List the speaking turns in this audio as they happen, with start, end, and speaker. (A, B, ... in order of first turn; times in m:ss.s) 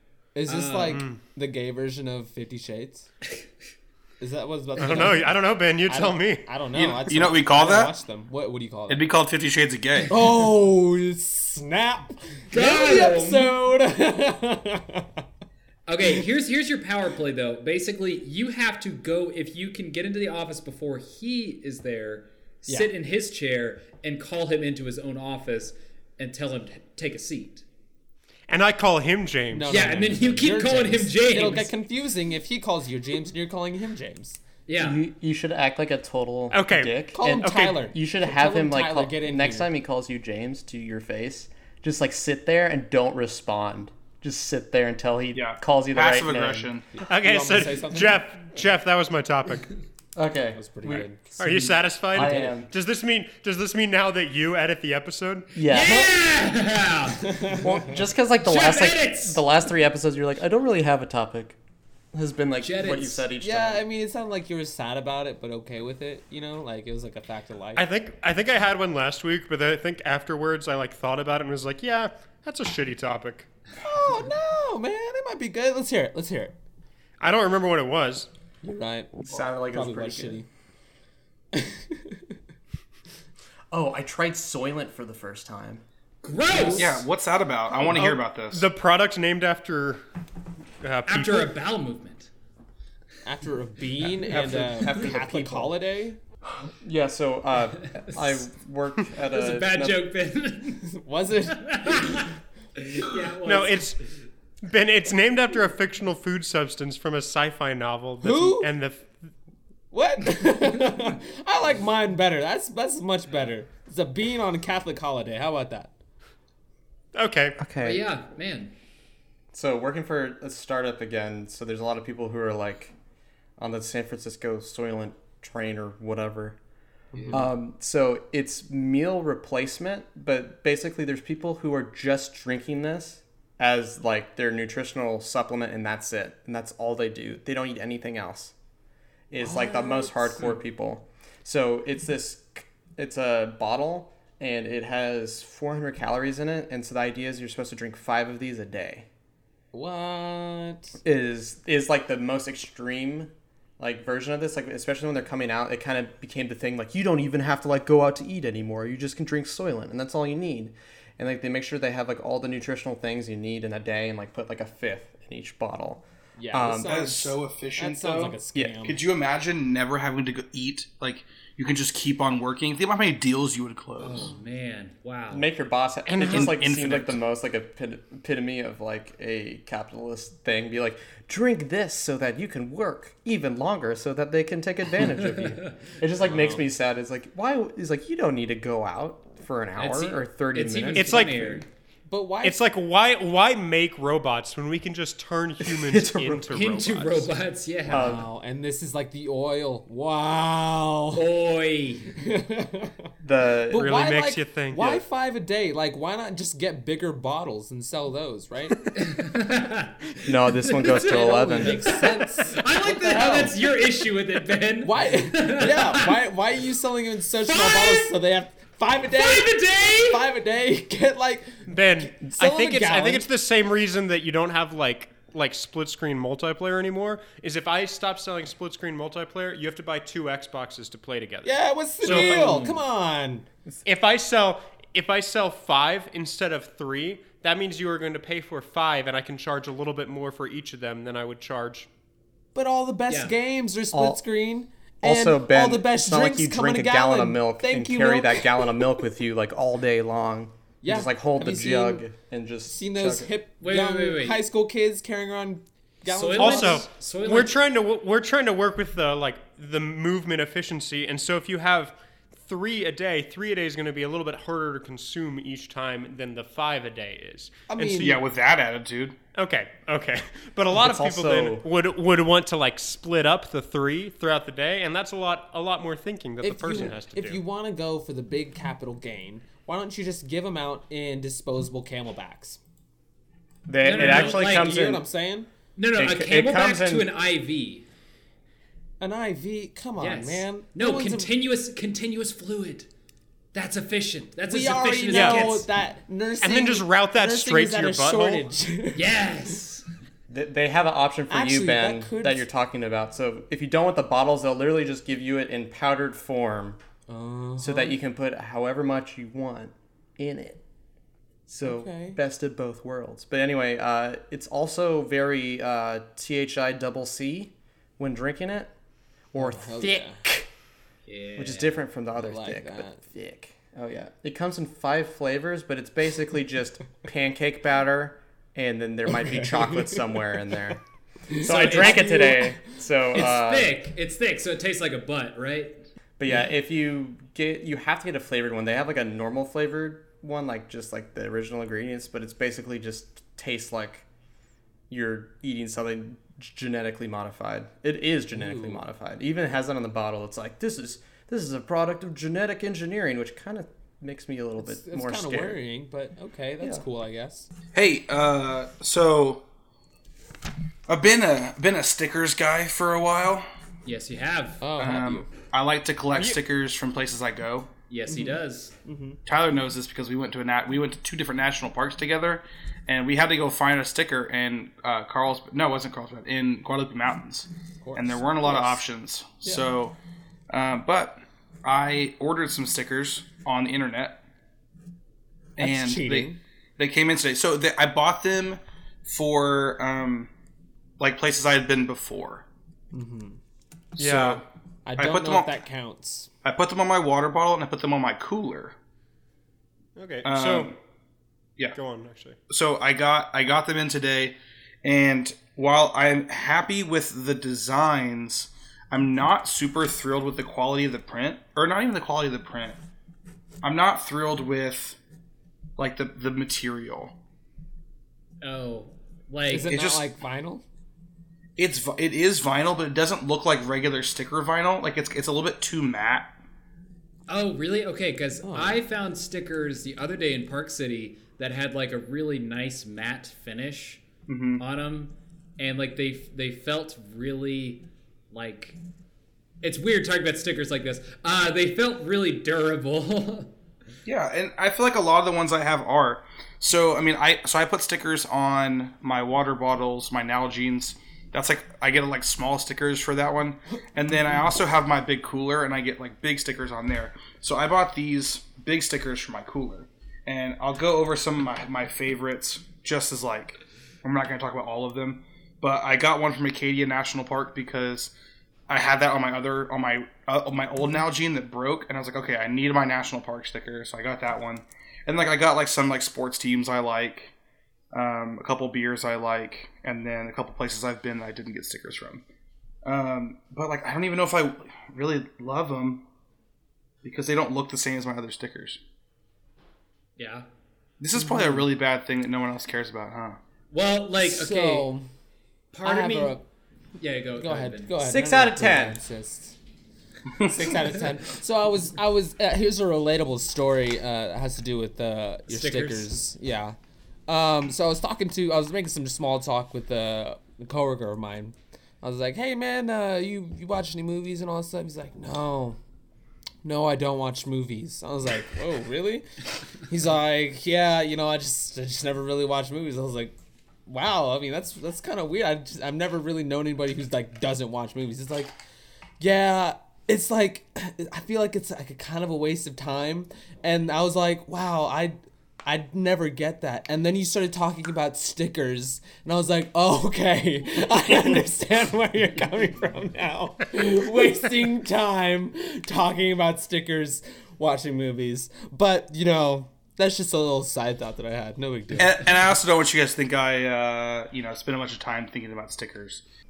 0:00.4-0:03.1 A
0:00.5-0:01.0 B
0:00.9-0:01.2 C
0:04.2-0:05.3 A
0:04.8-0:06.5 C
0:05.9-0:09.0 A
0:06.7-0:08.0 D
0:08.9-0:10.1 D
0:10.1-0:15.2 A
0:12.5-0:13.6 B
0:15.9-0:27.6 B
0:28.5-0:29.7 C
0:29.5-0:34.4 A
0:29.7-0:31.7 B
0:34.7-0:35.0 B
0:34.8-0:46.7 E
0:36.5-0:37.8 C
0:37.1-0:39.7 A
0:45.3-0:46.9 D
0:47.0-0:48.2 A
0:47.1-0:49.7 C
0:50.2-0:52.7 E
0:50.5-0:52.5 A
0:51.4-0:55.5 C
0:55.6-0:56.2 E
0:55.7-0:57.6 B
0:57.3-0:57.6 A
0:57.6-1:01.6 E
0:58.4-0:59.4 B
1:02.1-1:03.8 E
1:02.6-1:03.2 B
1:03.4-1:07.9 A
1:07.8-1:13.5 C
1:13.8-1:16.6 A
1:17.2-1:18.3 C
1:18.6-1:20.5 A
1:19.3-1:20.4 E
1:21.5-1:22.4 A
1:23.7-1:25.8 E
1:26.2-1:27.0 B
1:26.5-1:27.0 A
1:26.7-1:28.7 D
1:27.9-1:30.0 C
1:30.8-1:31.5 C
1:31.1-1:32.3 B
1:33.2-1:36.2 A
1:34.2-1:35.8 E
1:36.5-1:40.0 E
1:38.1-1:38.4 B
1:39.2-1:40.9 B
1:40.9-1:42.3 A
1:41.5-1:44.0 B
1:43.4-1:44.0 C
1:44.6-1:49.1 C
1:48.2-1:48.7 A
1:49.9-1:55.9 A
1:57.1-1:57.6 C
1:57.6-1:58.1 E
1:57.8-1:58.7 B
1:59.5-2:02.9 E
2:03.6-2:06.6 E
2:07.1-2:07.5 A
2:07.3-2:18.5 E
2:19.3-2:29.1 E
2:19.4-2:20.5 A
2:29.7-2:31.0 A
2:31.0-2:47.0 E
2:46.4-2:49.0 A
2:46.8-2:54.3 D
2:54.0-2:55.5 B
2:55.3-3:11.6 E
2:56.1-2:56.6 C
2:56.2-2:57.2 D
3:05.0-3:05.7 B
3:06.2-3:06.6 A
3:09.8-3:11.7 B
3:11.0-3:11.4 C
3:12.1-3:12.6 A
3:12.4-3:17.3 C
3:15.6-3:16.5 E
3:16.5-3:18.3 B
3:17.9-3:18.2 E
3:17.9-3:21.3 A
3:21.1-3:22.1 B
3:22.2-3:23.0 A
3:23.2-3:24.0 E
3:23.7-3:29.0 A
3:23.7-3:25.0 C
3:28.9-3:36.2 B
3:30.3-3:31.9 E
3:31.0-3:33.6 A
3:34.8-3:39.5 A
3:37.5-3:38.2 B
3:39.1-3:40.3 B
3:40.0-3:43.3 A
3:41.7-3:52.7 C
3:51.4-3:53.5 A
3:53.8-4:01.9 C
4:02.6-4:08.8 A
4:03.1-4:03.4 B
4:03.9-4:04.2 E
4:05.0-4:13.3 E
4:10.8-4:12.0 A
4:12.7-4:16.9 A
4:13.6-4:14.4 B
4:16.1-4:17.6 B
4:16.4-4:28.2 C
4:27.7-4:28.2 A
4:28.0-4:29.2 D
4:29.4-4:37.4 C
4:30.7-4:31.7 E
4:36.4-4:42.6 A
4:43.7-4:45.0 E
4:43.8-4:44.8 B
4:43.9-4:45.5 A
4:45.8-4:47.8 B
4:46.0-4:47.1 E
4:49.0-4:51.3 A
4:50.0-4:52.9 B
4:53.5-4:55.7 B
4:54.5-4:59.2 A
4:55.1-4:55.5 C
4:56.4-4:58.6 C
4:58.9-4:59.8 B
5:00.3-5:06.8 E
5:01.3-5:02.5 A
5:07.1-5:08.0 A
5:07.6-5:10.6 E
5:11.5-5:18.7 E
5:11.6-5:12.2 A
5:19.3-5:20.5 E
5:19.4-5:20.2 A
5:21.1-5:21.8 B
5:21.4-5:30.8 E
5:22.2-5:23.0 A
5:29.1-5:30.2 A
5:31.3-5:32.6 A
5:31.4-5:33.8 E
5:31.4-5:32.4 B
5:33.1-5:35.8 B
5:36.2-5:44.0 E
5:44.9-5:55.6 E
5:48.3-5:48.8 A
5:54.6-5:57.5 A
5:57.7-5:59.4 D
6:00.9-6:03.4 D
6:03.8-6:04.6 B
6:04.6-6:05.3 A
6:04.8-6:07.7 D
6:07.9-6:08.7 B
6:08.1-6:09.2 A
6:09.2-6:20.0 D
6:17.8-6:18.8 A
6:20.5-6:24.2 D
6:25.6-6:30.3 D
6:25.6-6:26.4 A
6:31.0-6:32.4 D
6:32.9-6:33.4 A
6:34.0-6:34.4 D
6:34.0-6:34.4 C
6:34.8-6:36.3 A
6:35.0-6:35.6 D
6:36.4-6:38.8 D
6:40.0-6:40.7 C
6:40.2-6:40.8 D
6:41.7-6:42.4 C
6:42.5-6:52.8 D
6:53.6-6:55.0 D
6:55.8-6:57.1 D
6:58.4-6:59.7 B
6:59.5-7:00.6 A
6:59.7-7:00.1 D
7:01.6-7:06.3 D
7:07.3-7:14.0 B
7:08.4-7:08.8 A
7:14.3-7:14.6 D
7:14.6-7:18.8 B
7:19.6-7:23.5 B
7:24.1-7:48.1 D
7:48.7-7:57.3 D
7:57.9-8:02.2 D
8:02.8-8:06.0 D
8:07.0-8:08.8 D
8:10.2-8:10.5 B
8:11.0-8:13.4 D
8:11.2-8:11.7 A
8:13.7-8:14.9 B
8:14.2-8:15.1 A
8:15.7-8:16.4 B
8:15.8-8:16.4 A
8:17.0-8:18.0 B
8:17.4-8:19.6 A
8:18.0-8:19.0 E
8:20.4-8:26.8 A
8:25.5-8:26.2 B
8:27.3-8:35.8 A
8:36.6-8:43.4 A
8:43.9-8:48.5 A
8:49.2-9:12.2 A
9:12.0-9:16.2 D